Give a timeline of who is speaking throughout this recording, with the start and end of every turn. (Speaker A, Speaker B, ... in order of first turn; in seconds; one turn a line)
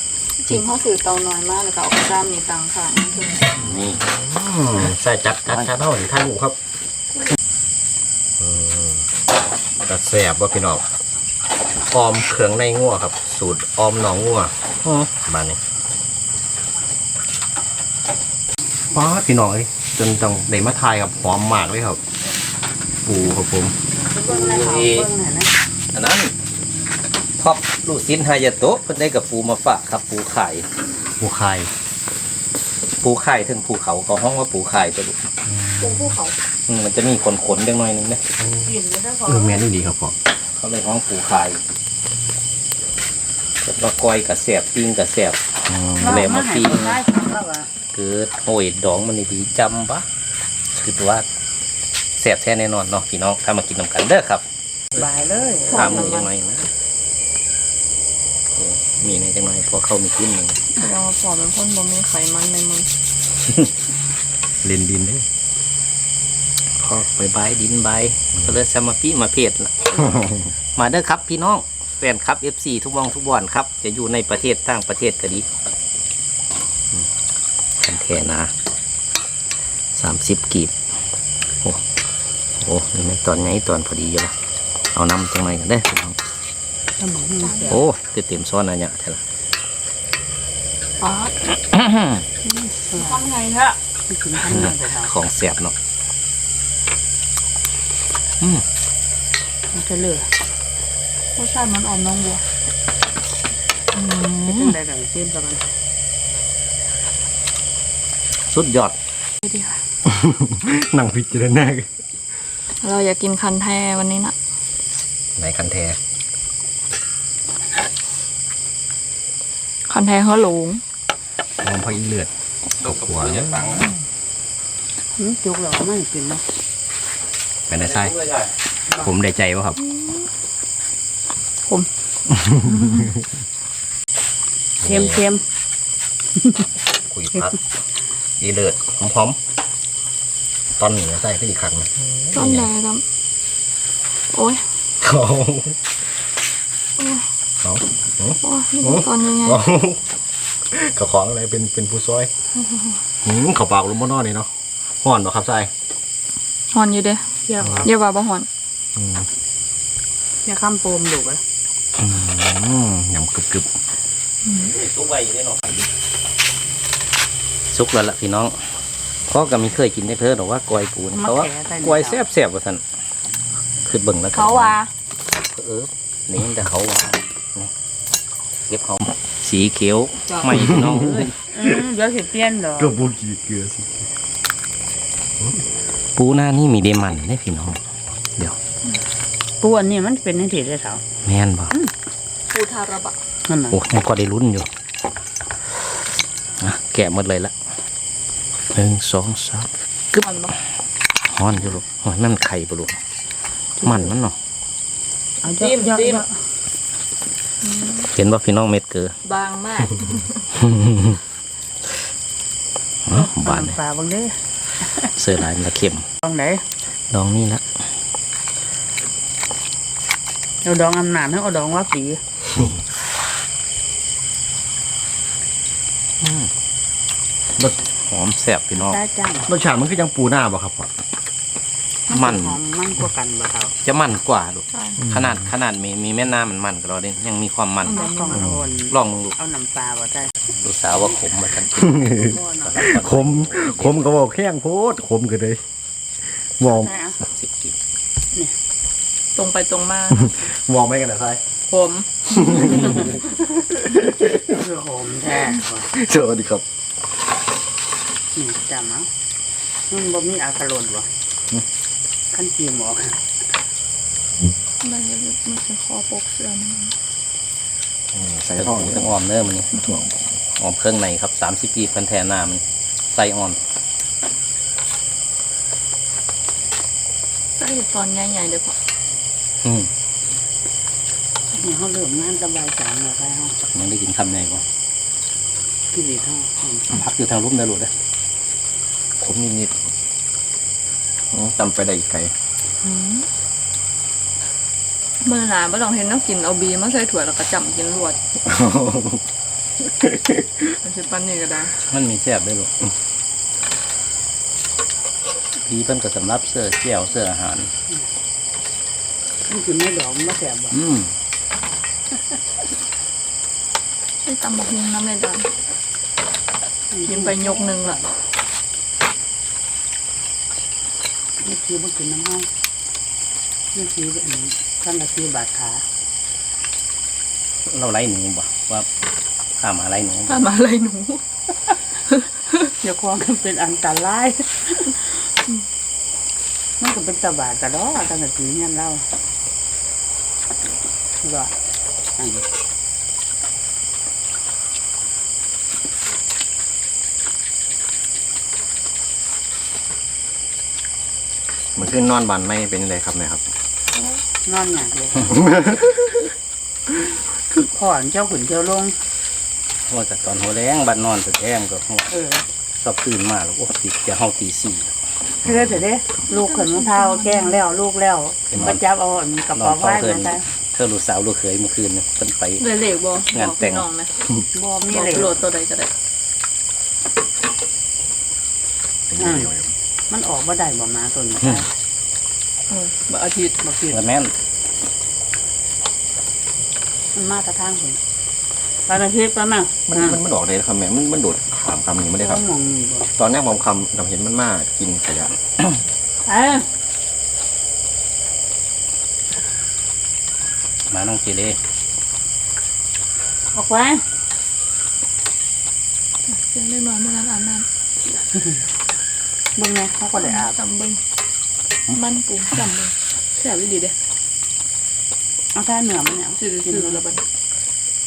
Speaker A: 0.4-3.5
Speaker B: 3.5-4.0
Speaker C: 3.6-6.6
Speaker B: 5.5-5.7
Speaker C: 8.4-9.0
Speaker C: 9.8-10.8
Speaker C: 11.9-15.6
Speaker B: 14.8-15.1
Speaker C: 18.9-22.0
Speaker C: 23.0-23.7
Speaker D: 24.1-25.5
Speaker B: 24.4-25.1
Speaker B: 25.9-26.3
Speaker B: 27.4-30.6
Speaker C: 31.2-31.7
Speaker B: 33.0-35.2
Speaker C: 35.5-36.2
Speaker A: 35.8-36.3
Speaker B: 36.7-38.2
Speaker C: 38.4-38.7
Speaker D: 38.5-39.7
Speaker C: 39.2-40.1
Speaker B: 40.6-41.6
Speaker B: 43.6-47.0
Speaker D: 46.0-47.7
Speaker B: 47.9-50.0
Speaker B: 50.7-51.2
Speaker B: 52.2-54.4
Speaker D: 54.9-56.1
Speaker A: 55.7-56.2
Speaker B: 55.7-56.7
Speaker B: 58.5-60.6
Speaker A: 60.8-62.9
Speaker C: 64.6-65.2
Speaker B: 66.8-70.0
Speaker C: 70.0-70.4
Speaker B: 70.7-75.5
Speaker B: 77.8-78.5
Speaker B: 79.9-80.7
Speaker B: 82.6-84.3
Speaker B: 84.9-86.2
Speaker D: 87.0-87.8
Speaker A: 87.4-87.7
Speaker B: 87.7-89.2
Speaker B: 91.7-92.2
Speaker D: 92.4-93.3
Speaker A: 92.9-93.7
Speaker D: 94.1-95.1
Speaker B: 94.4-95.7
Speaker D: 99.7-100.3
Speaker A: 101.4-102.3
Speaker E: 101.5-102.3
Speaker B: 103.9-104.8
Speaker D: 104.5-105.7
Speaker B: 108.5-109.0
Speaker C: 110.1-111.8
Speaker A: 112.8-114.3
Speaker C: 115.4-116.0
Speaker A: 119.9-120.8
Speaker C: 121.6-122.3
Speaker B: 122.8-123.9
Speaker C: 122.8-123.7
Speaker D: 125.2-126.4
Speaker C: 127.7-128.1
Speaker B: 127.7-128.5
Speaker C: 128.9-129.8
Speaker D: 134.8-135.4
Speaker C: 134.8-135.2
Speaker D: 136.4-136.6
Speaker C: 137.1-137.6
Speaker C: 138.4-139.4
Speaker C: 140.8-142.7
Speaker A: 142.3-143.0
Speaker C: 145.0-145.8
Speaker C: 147.6-150.0
Speaker A: 148.4-149.5
Speaker C: 150.7-152.3
Speaker C: 153.2-154.5
Speaker C: 155.0-155.7
Speaker A: 156.8-157.2
Speaker D: 157.5-157.9
Speaker A: 157.8-158.5
Speaker C: 159.0-159.3
Speaker D: 160.4-161.4
Speaker C: 162.0-163.7
Speaker B: 164.5-165.8
Speaker B: 167.7-168.5
Speaker B: 169.3-172.8
Speaker D: 171.1-172.2
Speaker B: 173.8-174.8
Speaker E: 174.4-174.8
Speaker B: 175.5-177.7
Speaker B: 178.7-181.3
Speaker E: 180.3-180.6
Speaker C: 180.5-181.3
Speaker D: 181.5-183.0
Speaker C: 182.8-184.0
Speaker B: 186.2-187.8
Speaker D: 189.6-191.0
Speaker B: 191.2-191.8
Speaker A: 192.5-193.1
Speaker D: 193.5-193.8
Speaker B: 193.7-194.7
Speaker B: 196.6-197.5
Speaker B: 198.7-200.3
Speaker E: 200.2-200.5
Speaker B: 201.3-203.0
Speaker D: 203.8-204.2
Speaker B: 203.8-204.3
Speaker D: 205.4-206.3
Speaker E: 205.6-206.1
Speaker E: 207.6-208.1
Speaker B: 208.1-209.1
Speaker E: 209.3-210.3
Speaker B: 210.6-211.2
Speaker B: 213.1-213.8
Speaker D: 213.1-215.1
Speaker B: 215.1-216.0
Speaker D: 216.2-216.6
Speaker B: 217.1-217.6
Speaker D: 220.6-222.2
Speaker B: 226.2-226.5
Speaker B: 228.0-229.0
Speaker D: 228.7-229.5
Speaker C: 229.5-230.9
Speaker B: 232.1-232.6
Speaker D: 232.1-233.7
Speaker B: 233.8-238.0
Speaker E: 234.7-235.0
Speaker C: 235.0-235.4
Speaker D: 237.8-240.3
Speaker E: 237.9-238.4
Speaker C: 238.3-238.6
Speaker B: 238.9-239.4
Speaker B: 240.5-244.1
Speaker C: 241.7-245.6
Speaker D: 242.0-243.1
Speaker C: 246.6-246.9
Speaker D: 246.6-247.2
Speaker B: 247.3-247.8
Speaker E: 249.3-250.4
Speaker C: 250.1-251.4
Speaker E: 251.7-252.9
Speaker C: 252.3-254.5
Speaker D: 254.5-255.9
Speaker C: 255.9-256.6
Speaker D: 258.3-259.1
Speaker D: 259.9-261.1
Speaker D: 262.3-263.2
Speaker E: 264.8-266.9
Speaker C: 268.1-269.1
Speaker B: 268.5-269.7
Speaker C: 269.7-270.3
Speaker B: 270.6-273.6
Speaker E: 277.6-278.7
Speaker B: 279.6-279.9
Speaker D: 281.5-283.5
Speaker B: 283.7-284.6
Speaker D: 285.9-286.9
Speaker B: 286.9-287.9
Speaker C: 289.2-289.7
Speaker C: 291.3-292.3
Speaker E: 295.2-298.1
Speaker C: 298.6-299.1
Speaker E: 300.9-301.7
Speaker B: 301.8-302.7
Speaker B: 305.6-307.7
Speaker D: 309.5-310.8
Speaker B: 310.7-311.1
Speaker E: 314.3-315.4
Speaker D: 316.9-318.1
Speaker E: 317.1-318.0
Speaker D: 321.4-322.5
Speaker D: 323.7-325.8
Speaker B: 327.7-328.9
Speaker B: 329.6-330.5
Speaker E: 330.3-331.2
Speaker E: 332.1-332.6
Speaker D: 332.8-335.1
Speaker D: 336.8-339.0
Speaker D: 341.2-341.5
Speaker D: 342.2-342.4
Speaker C: 351.8-353.4
Speaker D: 353.9-355.6
Speaker D: 357.6-358.9
Speaker B: 359.9-362.1
Speaker D: 362.1-362.4
Speaker B: 362.8-364.9
Speaker D: 365.4-370.4
Speaker A: 366.4-367.2
Speaker B: 368.5-368.8
Speaker B: 369.5-372.8
Speaker E: 372.6-374.1
Speaker B: 373.3-373.9
Speaker D: 374.5-375.4
Speaker E: 374.9-375.9
Speaker C: 379.1-379.7
Speaker D: 379.2-379.5
Speaker D: 380.1-381.7
Speaker E: 382.7-383.5
Speaker D: 383.6-384.1
Speaker B: 383.9-384.3
Speaker D: 387.1-388.0
Speaker D: 388.9-390.2
Speaker C: 389.9-392.4
Speaker D: 392.1-393.1
Speaker C: 393.2-395.4
Speaker D: 396.2-396.7
Speaker B: 400.9-401.6
Speaker D: 403.5-404.0
Speaker E: 406.3-407.6
Speaker D: 408.3-408.6
Speaker D: 409.6-410.6
Speaker E: 410.2-410.9
Speaker E: 411.9-413.9
Speaker D: 415.5-417.1
Speaker E: 416.4-417.2